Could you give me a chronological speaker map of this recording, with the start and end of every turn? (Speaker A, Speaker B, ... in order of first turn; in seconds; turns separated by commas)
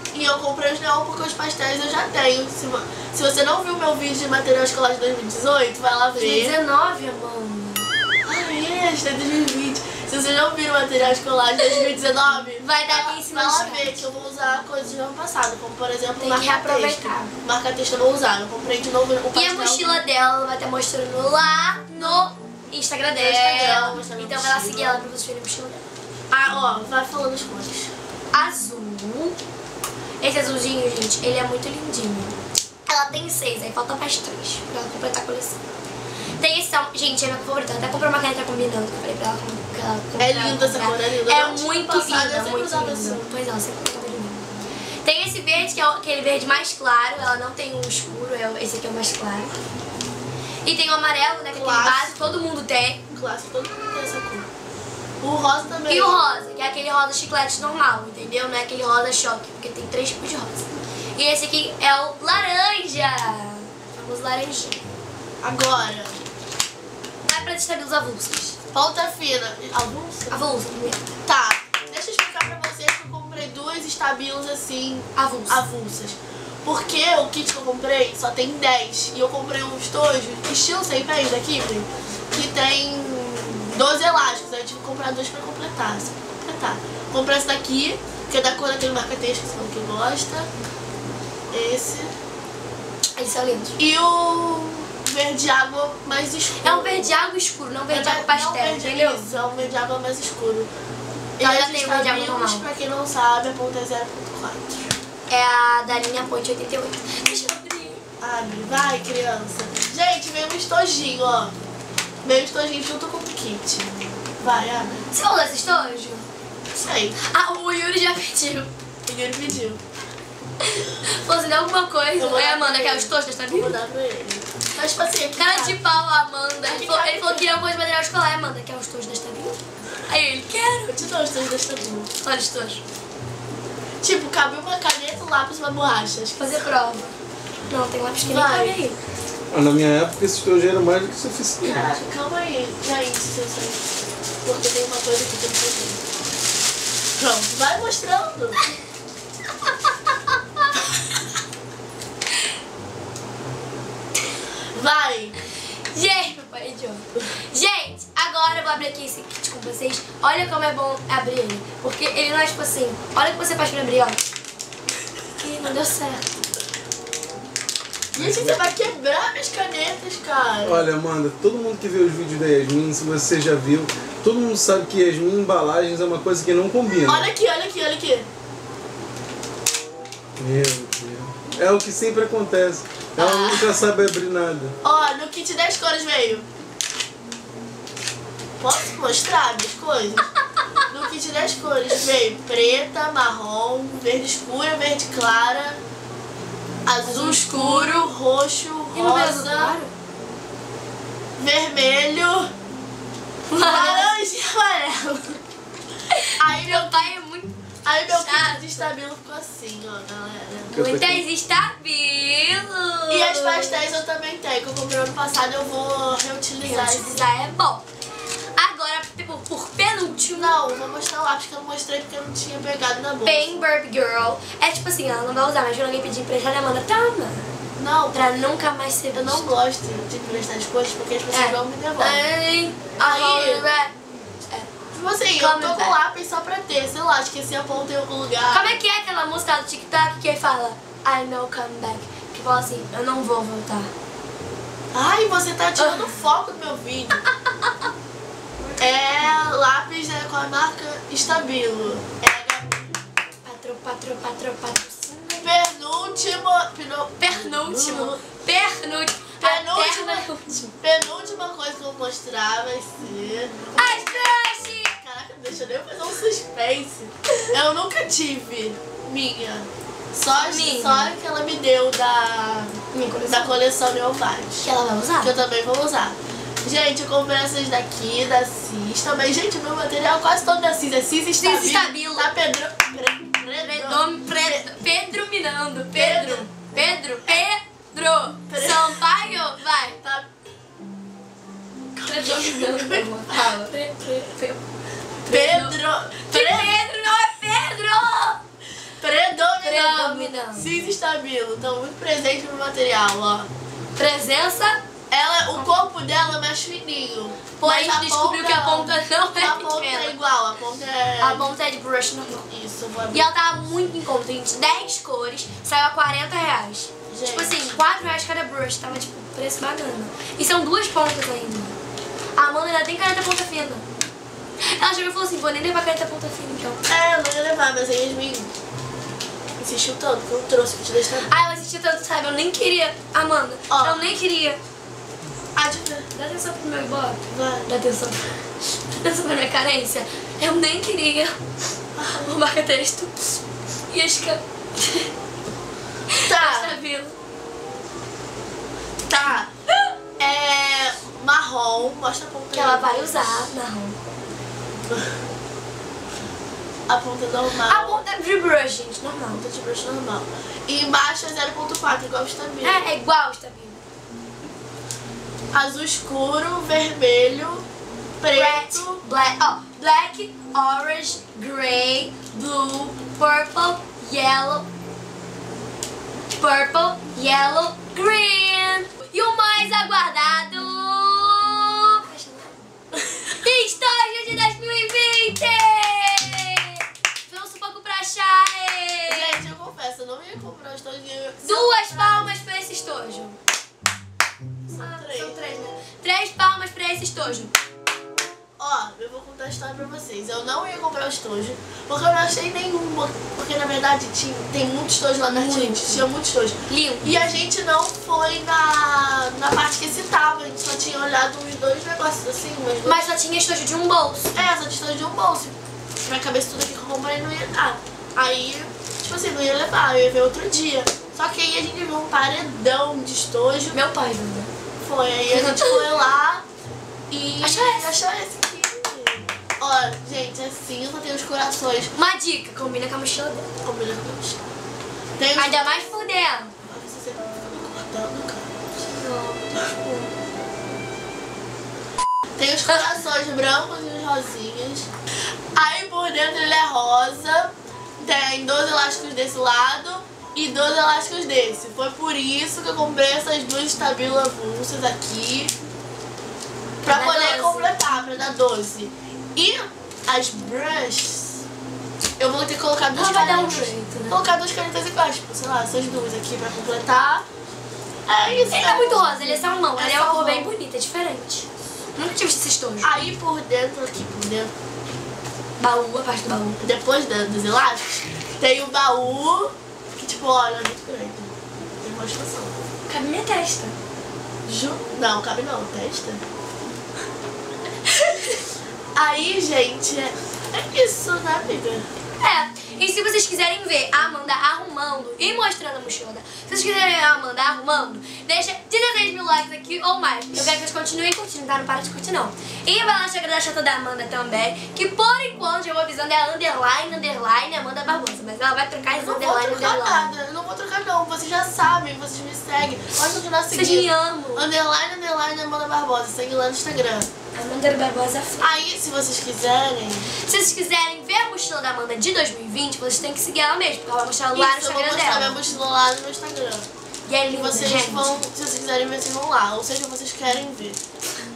Speaker A: 0.1-6.5, Speaker B: 6.1-7.9, Speaker A: 8.2-20.0, Speaker B: 12.6-14.0, Speaker B: 16.2-17.3, Speaker B: 19.3-25.8, Speaker A: 22.0-22.3, Speaker A: 23.1-25.0, Speaker A: 26.3-27.9, Speaker B: 28.3-29.4, Speaker B: 30.2-32.4, Speaker B: 32.9-35.6, Speaker B: 36.4-44.5, Speaker A: 40.2-43.3, Speaker B: 45.0-49.5, Speaker B: 50.6-53.0, Speaker A: 51.5-52.2, Speaker A: 53.1-54.5, Speaker A: 55.2-56.2, Speaker B: 55.9-64.8, Speaker A: 65.4-66.2, Speaker B: 67.2-68.6, Speaker A: 68.7-70.4, Speaker B: 70.3-71.1, Speaker A: 71.2-90.5, Speaker B: 75.2-75.6, Speaker A: 91.5-92.1, Speaker B: 93.2-93.8, Speaker A: 93.8-97.1, Speaker B: 96.6-99.2, Speaker A: 97.9-100.7, Speaker A: 101.4-105.0, Speaker B: 101.4-102.6, Speaker B: 105.3-108.0, Speaker A: 108.2-111.5, Speaker A: 112.2-115.0, Speaker B: 115.1-116.2, Speaker A: 116.8-117.2, Speaker B: 117.2-118.7, Speaker A: 119.0-119.8, Speaker B: 120.6-123.8, Speaker A: 122.2-125.8, Speaker B: 125.4-131.1, Speaker A: 126.6-127.5, Speaker A: 130.9-132.1, Speaker B: 132.2-132.8, Speaker A: 134.0-136.7, Speaker B: 136.4-137.1, Speaker B: 137.7-139.0, Speaker A: 138.2-138.8, Speaker C: 139.5-141.9, Speaker A: 141.6-143.8, Speaker A: 144.4-146.0, Speaker A: 147.2-148.6, Speaker A: 154.7-155.3, Speaker B: 155.9-164.2, Speaker B: 165.4-166.3, Speaker C: 168.1-168.7, Speaker A: 168.1-170.8, Speaker C: 170.6-177.3, Speaker A: 177.0-178.3, Speaker C: 180.4-184.8, Speaker A: 183.2-183.8, Speaker A: 184.8-186.4, Speaker A: 188.6-190.3, Speaker A: 190.8-195.8, Speaker A: 196.8-199.8, Speaker B: 197.0-198.1, Speaker B: 198.9-199.9, Speaker A: 201.4-202.5, Speaker B: 203.5-204.1, Speaker A: 203.5-205.4, Speaker B: 206.1-208.9, Speaker A: 206.4-207.2, Speaker A: 207.8-210.7, Speaker C: 210.7-211.2, Speaker B: 210.7-213.9, Speaker A: 213.1-217.2, Speaker B: 216.6-217.8, Speaker B: 218.6-220.6, Speaker A: 220.3-223.5, Speaker B: 223.2-227.5, Speaker A: 227.8-228.3, Speaker B: 228.1-229.5, Speaker A: 229.1-232.2, Speaker B: 231.3-234.7, Speaker A: 233.0-233.7, Speaker A: 234.9-238.8, Speaker B: 235.4-236.0, Speaker B: 238.5-243.9, Speaker A: 244.9-247.2, Speaker B: 245.8-246.1, Speaker A: 248.8-252.8, Speaker B: 253.4-255.5, Speaker A: 255.3-258.2, Speaker B: 257.2-260.7, Speaker A: 259.4-260.3, Speaker A: 260.8-264.4, Speaker B: 263.7-264.9, Speaker A: 265.0-272.7, Speaker B: 270.3-271.1, Speaker B: 272.9-273.6, Speaker A: 273.3-274.7, Speaker B: 274.6-275.3, Speaker A: 275.2-284.7, Speaker B: 281.4-282.3, Speaker B: 283.6-290.0, Speaker A: 285.9-286.5, Speaker A: 288.5-289.0, Speaker A: 290.0-290.3, Speaker A: 291.9-293.0, Speaker B: 292.0-294.6, Speaker B: 295.2-298.4, Speaker A: 295.3-297.0, Speaker A: 299.0-303.5, Speaker B: 299.6-300.7, Speaker B: 303.9-304.8, Speaker A: 305.1-311.5, Speaker B: 307.6-310.2, Speaker B: 311.2-312.5, Speaker A: 312.5-313.3, Speaker B: 313.1-321.8, Speaker A: 317.1-317.8, Speaker B: 322.4-323.9, Speaker B: 324.6-326.8, Speaker A: 326.9-328.5, Speaker A: 329.6-331.3, Speaker B: 331.2-334.6, Speaker A: 333.7-334.1, Speaker A: 335.5-336.1, Speaker B: 336.1-341.4, Speaker A: 337.3-337.7, Speaker A: 342.0-342.2, Speaker B: 342.0-343.3, Speaker B: 343.9-345.1, Speaker B: 346.1-347.1, Speaker A: 346.3-346.8, Speaker A: 349.1-349.5, Speaker A: 350.2-353.5, Speaker B: 352.5-354.1, Speaker A: 354.9-355.2, Speaker A: 356.9-358.0, Speaker B: 357.6-359.4, Speaker A: 359.3-362.9, Speaker B: 362.6-363.8, Speaker A: 365.5-367.6, Speaker A: 368.2-369.0, Speaker B: 368.3-372.2, Speaker A: 372.3-373.0, Speaker B: 373.1-374.7, Speaker B: 376.4-382.6, Speaker B: 383.3-389.4, Speaker A: 389.1-392.3, Speaker B: 391.4-393.4, Speaker A: 394.7-395.4, Speaker B: 394.7-397.5, Speaker A: 398.6-413.1, Speaker B: 405.3-406.0, Speaker B: 406.7-407.2, Speaker B: 412.8-414.4, Speaker A: 414.3-415.5, Speaker A: 416.0-423.8, Speaker B: 423.7-424.5, Speaker A: 424.8-426.4, Speaker B: 425.3-425.8, Speaker A: 427.1-431.9, Speaker B: 427.4-427.9, Speaker B: 431.9-433.5, Speaker A: 433.6-434.4, Speaker A: 435.2-435.8, Speaker B: 435.3-436.5, Speaker A: 436.6-438.5, Speaker B: 438.8-440.1, Speaker A: 442.4-444.9, Speaker A: 445.5-455.5, Speaker A: 456.8-461.4, Speaker B: 456.9-457.7, Speaker A: 462.2-467.2, Speaker B: 462.9-464.2, Speaker A: 468.1-470.5, Speaker B: 468.5-473.0, Speaker A: 472.8-474.5, Speaker B: 475.6-476.6, Speaker A: 476.6-482.7, Speaker B: 482.9-483.7, Speaker A: 484.4-486.2, Speaker B: 487.9-488.4, Speaker A: 488.9-491.9, Speaker B: 492.2-510.1, Speaker A: 500.3-500.6, Speaker A: 508.9-517.1, Speaker B: 513.5-514.5, Speaker B: 517.3-518.5, Speaker A: 518.4-520.1, Speaker B: 520.2-525.4, Speaker A: 524.3-526.7, Speaker B: 527.1-528.1, Speaker A: 527.2-530.8